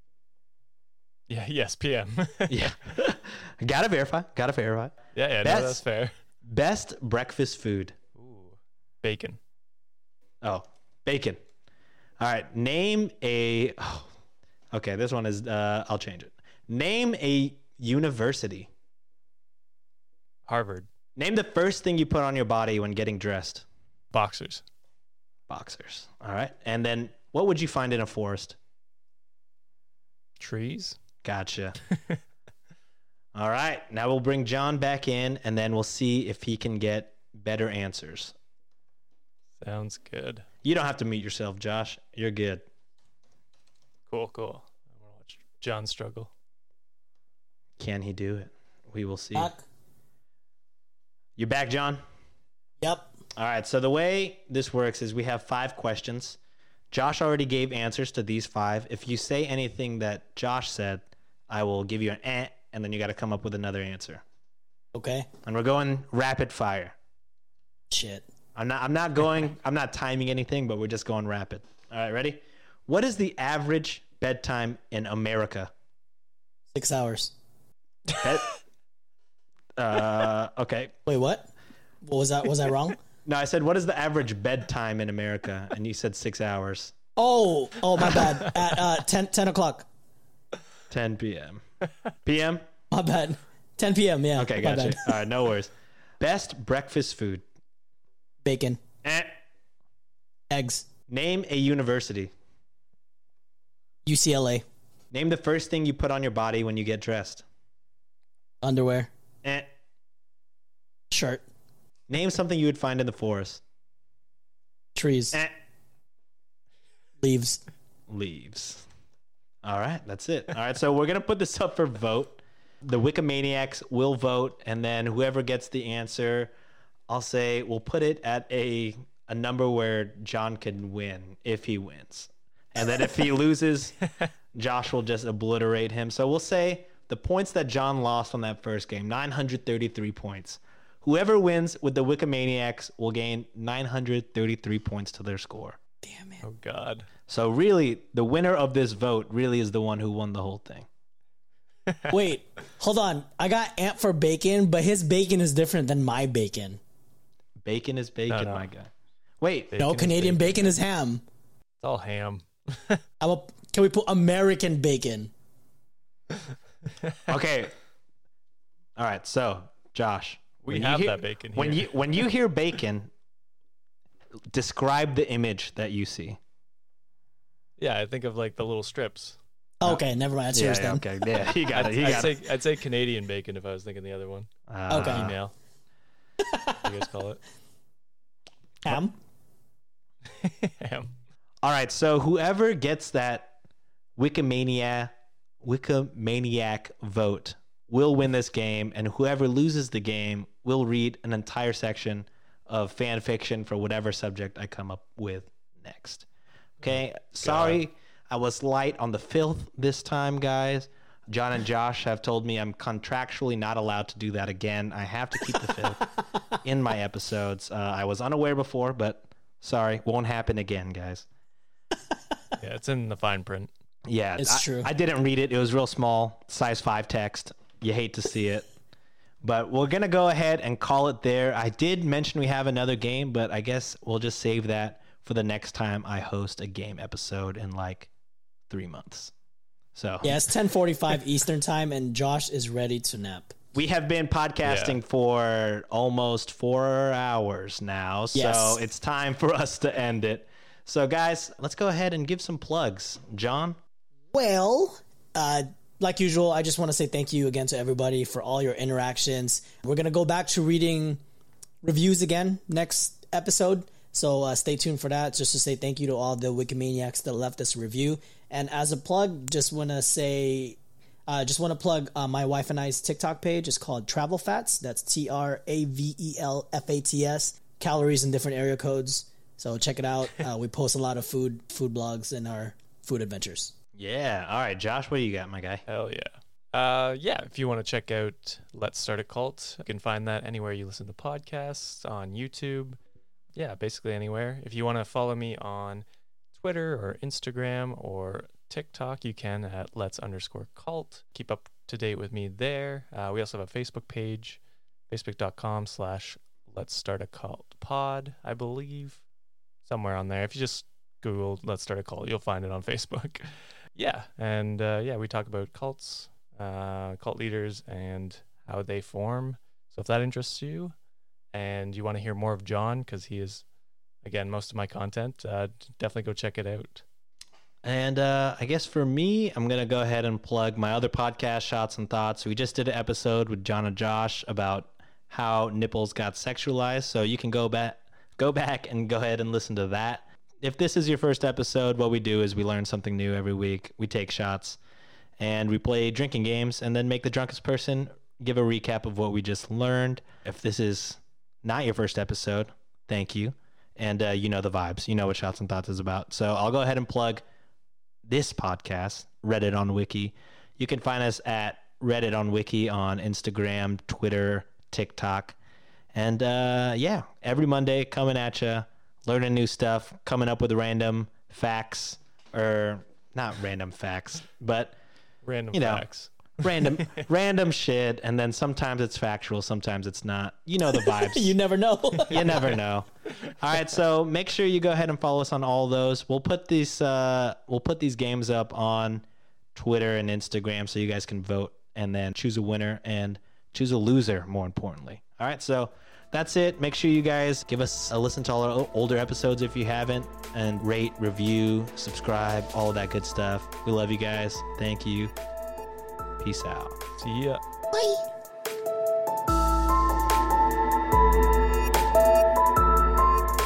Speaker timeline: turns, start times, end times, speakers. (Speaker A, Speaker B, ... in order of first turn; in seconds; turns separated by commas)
Speaker A: 1.3-2.7, Speaker B: 2.5-5.8, Speaker A: 5.1-6.1, Speaker B: 6.5-7.9, Speaker A: 8.1-9.4, Speaker B: 10.4-11.4, Speaker B: 12.2-14.1, Speaker B: 14.7-18.7, Speaker A: 20.5-20.9, Speaker B: 21.2-23.6, Speaker A: 24.1-24.6, Speaker B: 25.5-28.6, Speaker A: 30.4-31.0, Speaker B: 31.2-31.8, Speaker B: 33.3-38.3, Speaker A: 39.6-40.5, Speaker B: 40.6-42.6, Speaker A: 44.1-46.3, Speaker B: 47.8-49.5, Speaker C: 49.3-49.6, Speaker B: 51.4-52.0, Speaker C: 52.8-53.1, Speaker B: 53.3-56.4, Speaker B: 56.9-64.2, Speaker C: 64.9-65.3, Speaker B: 65.4-66.9, Speaker C: 67.9-68.2, Speaker B: 68.5-75.7, Speaker C: 76.7-77.3, Speaker B: 78.2-78.5, Speaker B: 79.8-80.9, Speaker C: 81.0-81.5, Speaker C: 82.0-83.0, Speaker B: 83.2-86.9, Speaker C: 87.2-89.9, Speaker B: 90.9-91.6, Speaker B: 92.2-92.6, Speaker C: 92.9-95.0, Speaker B: 94.3-97.4, Speaker C: 98.4-98.8, Speaker B: 99.0-99.3, Speaker C: 100.5-100.9, Speaker B: 101.1-102.3, Speaker C: 104.0-104.6, Speaker B: 105.1-107.4, Speaker C: 108.6-109.1, Speaker C: 111.1-111.4, Speaker B: 112.1-113.6, Speaker C: 114.9-115.4, Speaker C: 117.2-117.6, Speaker B: 118.1-118.8, Speaker B: 119.6-126.5, Speaker B: 127.1-134.0, Speaker B: 134.5-145.8, Speaker C: 146.0-146.4, Speaker A: 146.4-147.1, Speaker B: 147.3-150.9, Speaker A: 151.9-152.1, Speaker C: 152.1-156.8, Speaker B: 157.6-159.7, Speaker A: 158.3-158.7, Speaker A: 159.7-160.8, Speaker C: 159.8-161.2, Speaker A: 161.8-163.0, Speaker C: 163.2-165.3, Speaker B: 167.3-167.7, Speaker B: 168.9-173.1, Speaker A: 170.6-172.1, Speaker B: 174.5-176.4, Speaker A: 177.8-179.4, Speaker C: 179.8-181.1, Speaker B: 180.5-182.3, Speaker A: 181.7-185.5, Speaker B: 184.7-185.4, Speaker C: 184.9-185.3, Speaker C: 186.4-186.8, Speaker A: 186.8-187.4, Speaker C: 188.8-189.2, Speaker A: 190.3-191.1, Speaker B: 191.6-193.5, Speaker B: 194.2-206.2, Speaker B: 206.8-221.2, Speaker A: 207.4-207.8, Speaker A: 222.6-223.7, Speaker B: 224.1-228.7, Speaker C: 224.4-224.9, Speaker B: 229.4-238.1, Speaker B: 238.7-239.3, Speaker B: 239.9-240.4, Speaker C: 240.2-243.6, Speaker B: 243.7-253.8, Speaker A: 244.6-245.0, Speaker C: 248.3-248.8, Speaker C: 254.3-261.2, Speaker C: 261.8-283.7, Speaker B: 284.0-285.8, Speaker A: 285.9-293.0, Speaker A: 293.5-309.2, Speaker A: 309.8-320.9, Speaker A: 321.5-323.6, Speaker A: 324.2-327.0, Speaker B: 327.8-344.8, Speaker B: 345.4-357.4, Speaker B: 358.2-365.6, Speaker B: 366.1-374.9, Speaker A: 375.4-377.2, Speaker B: 375.7-376.0, Speaker B: 376.6-381.5, Speaker C: 381.0-382.6, Speaker B: 382.3-405.3, Speaker A: 382.3-382.8, Speaker B: 406.4-407.0, Speaker A: 407.2-407.6, Speaker C: 407.9-408.2